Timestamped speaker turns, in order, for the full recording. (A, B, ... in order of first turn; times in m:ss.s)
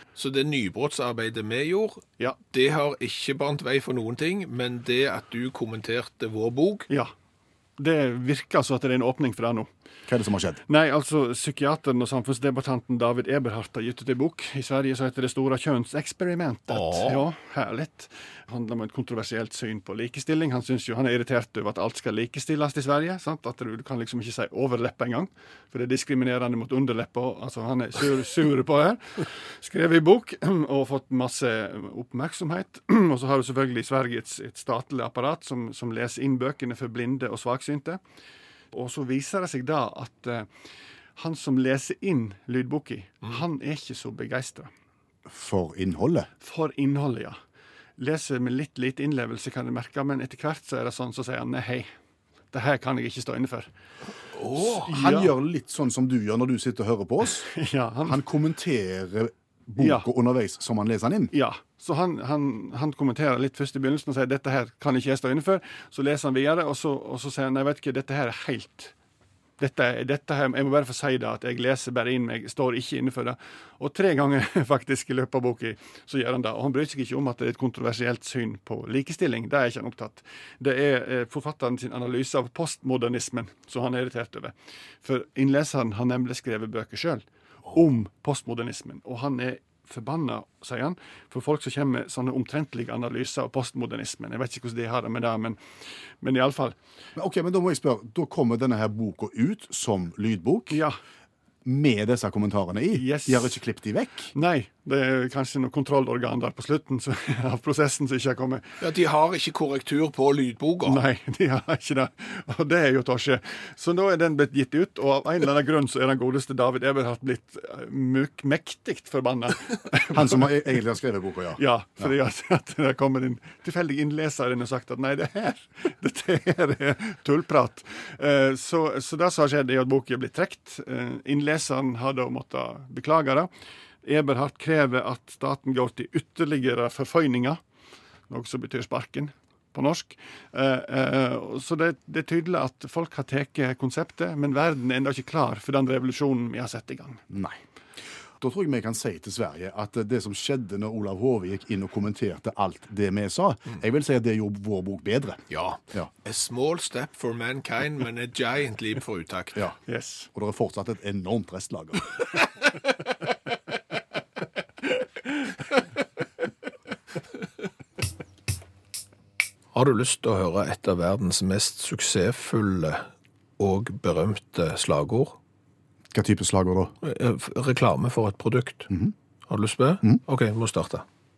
0:00.2-0:06.9 A
0:07.8-0:09.7 B
0:10.1-0:10.6 C
0:10.7-0:38.0 B
0:16.7-0:17.2 A
0:38.7-0:40.5 B
0:41.2-0:44.7 B
0:45.3-0:46.3 C
0:46.4-0:47.4 B
0:48.0-0:51.9 B
0:52.5-0:53.7 B
0:54.3-0:54.9 A
0:54.8-0:55.3 B
0:54.8-0:57.5 C
0:57.4-0:58.2 B
0:58.0-1:01.3 C
0:59.8-1:00.1 B
1:01.3-1:08.9 B
1:09.6-1:35.6 B
1:36.2-1:36.8 B
1:37.2-1:40.8 C
1:40.7-1:41.0 B
1:41.6-1:44.3 C
1:42.9-1:43.5 B
1:44.3-1:48.8 B
1:48.8-1:51.0 A
1:50.8-2:00.5 B
2:00.1-2:02.1 C
2:01.6-2:13.5 B
2:14.0-2:17.6 B
2:18.3-2:27.2 B
2:27.3-2:27.6 C
2:28.4-2:35.4 C
2:35.5-2:39.6 A
2:39.9-2:40.3 B
2:40.3-2:42.1 C
2:49.7-2:53.1 A
2:53.6-2:55.4 A
2:56.1-2:56.9 C
2:57.0-2:58.9 A
2:59.5-3:01.0 A